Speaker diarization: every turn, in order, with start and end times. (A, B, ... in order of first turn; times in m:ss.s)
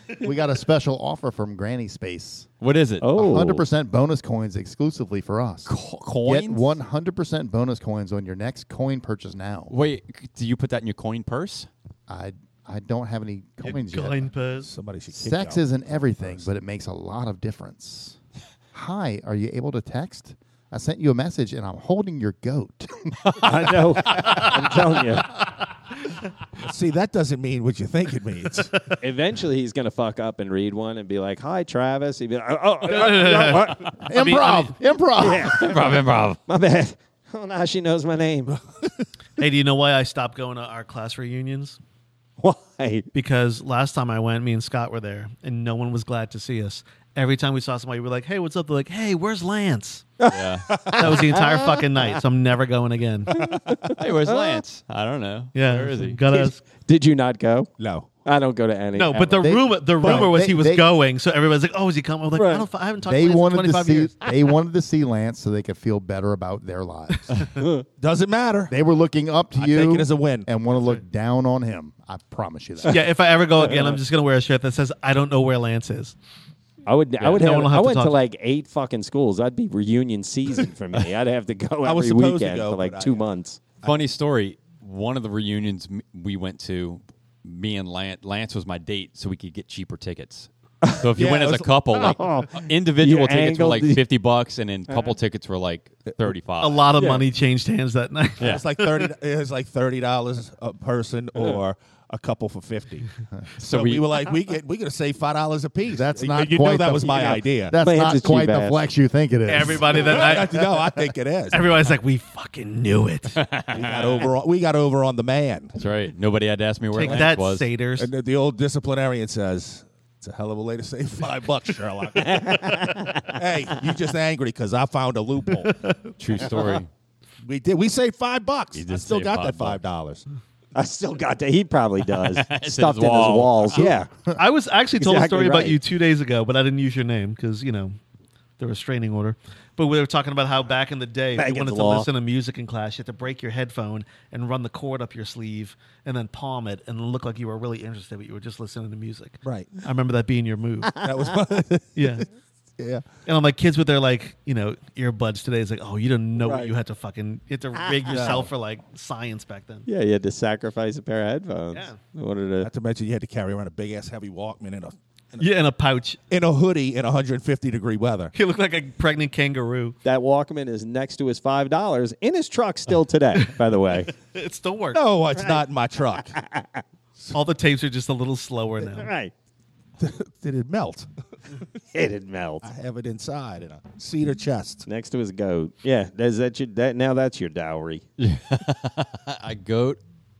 0:00.2-0:02.5 A
0:02.6-0:03.6 B
0:03.0-0:03.6 C
0:03.1-0:05.7 A
0:05.6-0:06.7 B
0:06.2-0:09.7 A
0:09.7-0:11.7 B
0:12.1-0:14.3 A
0:13.6-0:14.7 D
0:14.6-0:15.7 E
0:15.1-0:18.2 A
0:16.2-0:16.5 E
0:18.7-0:23.8 A
0:23.4-0:25.3 C
0:26.6-0:28.8 E
0:29.0-0:34.0 C
0:32.8-0:34.7 D
0:34.0-0:35.9 A
0:35.2-0:38.6 C
0:35.5-0:36.4 B
0:39.4-0:41.8 D
0:42.4-0:43.1 C
0:43.1-0:50.1 D
0:50.2-0:52.2 C
0:50.3-0:51.0 B
0:50.9-0:53.3 D
0:53.3-0:54.6 C
0:53.9-0:56.2 B
0:55.5-0:56.6 D
0:56.3-0:57.7 C
0:57.8-0:58.1 E
0:58.2-1:00.3 C
0:58.9-1:04.3 D
0:59.4-1:00.9 A
1:02.3-1:02.6 C
1:03.0-1:07.5 A
1:07.5-1:07.8 C
1:08.0-1:08.7 E
1:08.7-1:13.1 A
1:09.5-1:10.5 E
1:10.7-1:11.0 D
1:12.9-1:16.2 D
1:13.7-1:13.9 C
1:16.8-1:23.6 C
1:17.3-1:18.2 D
1:21.8-1:23.2 E
1:23.8-1:36.9 B
1:31.2-1:31.7 E
1:31.9-1:34.0 C
1:36.6-1:39.0 D
1:37.0-1:37.2 C
1:38.4-1:43.1 E
1:43.6-1:44.1 B
1:43.6-1:47.8 E
1:45.9-1:50.9 A
1:47.8-1:48.9 C
1:49.4-1:50.6 D
1:49.9-1:51.7 E
1:51.5-1:53.4 D
1:53.4-1:54.3 B
1:53.7-1:55.8 E
1:55.8-1:57.7 B
1:56.9-1:58.1 D
1:58.0-2:05.7 E
2:02.2-2:03.4 C
2:05.7-2:06.0 D
2:06.2-2:06.9 B
2:07.4-2:10.2 E
2:08.7-2:09.8 B
2:10.7-2:14.1 C
2:12.2-2:13.9 B
2:14.4-2:18.0 D
2:15.0-2:15.8 C
2:18.6-2:31.0 D
2:21.3-2:22.1 C
2:29.4-2:29.7 E
2:31.0-2:32.2 E
2:32.0-2:32.2 D
2:32.8-2:33.1 E
2:33.2-2:39.8 D
2:36.4-2:36.7 C
2:38.1-2:38.5 E
2:39.8-2:42.7 C
2:41.7-2:42.0 D
2:42.6-2:45.4 E
2:45.4-2:46.2 D
2:46.3-2:48.3 E
2:48.3-2:50.0 D
2:50.0-2:54.1 C
2:54.1-2:55.0 D
2:54.9-2:56.4 E
2:56.3-2:56.8 C
2:57.3-2:59.1 D
2:58.8-2:59.3 C
3:00.0-3:01.1 E
3:01.9-3:02.6 C
3:02.6-3:04.8 E
3:04.8-3:08.0 C
3:08.2-3:10.0 B